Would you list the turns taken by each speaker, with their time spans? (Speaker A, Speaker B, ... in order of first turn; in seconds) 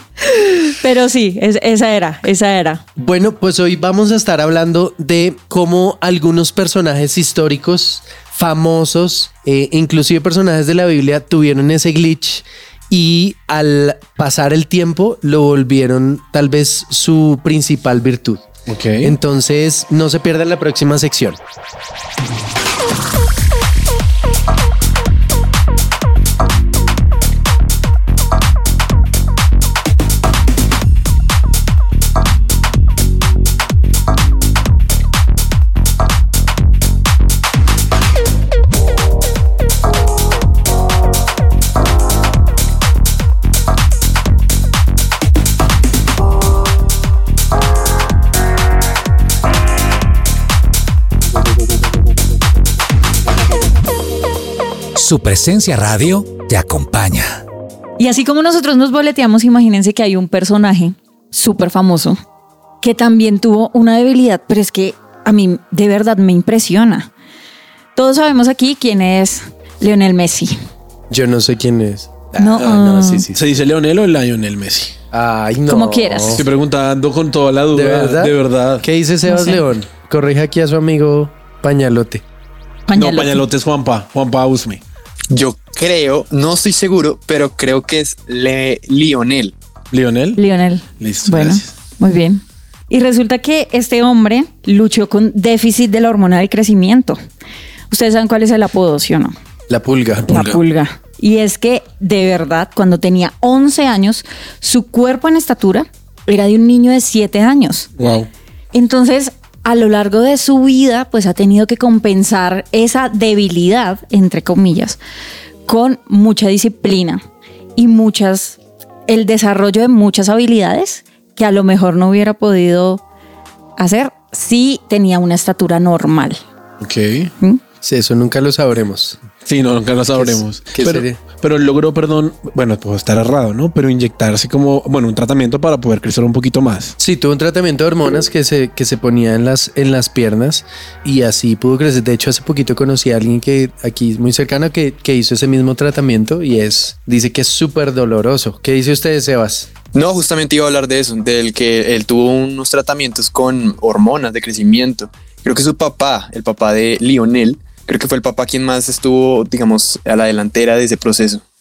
Speaker A: 0.2-2.8, 58.0-62.2, 62.8-67.1, 68.0-70.5, 72.4-73.2, 75.7-76.4, 79.3-79.6, 82.9-83.4, 90.4-97.2, 97.9-99.3, 100.3-107.9, 108.7-115.0, 115.7-117.2, 117.8-123.0, 123.8-126.4
Speaker B: 3.0-18.4, 19.0-21.4, 71.1-73.4, 75.1-76.4, 77.7-82.2, 99.7-100.4, 127.8-129.2, 130.1-131.2, 137.0-149.7
Speaker C: 18.7-19.1, 72.6-74.9, 76.3-78.8, 82.9-84.8, 89.9-90.4, 91.0-91.7, 100.2-100.6, 108.0-108.3, 126.8-127.3, 129.4-136.9
Speaker D: 55.0-57.4
Speaker E: 85.3-89.5, 149.9-161.4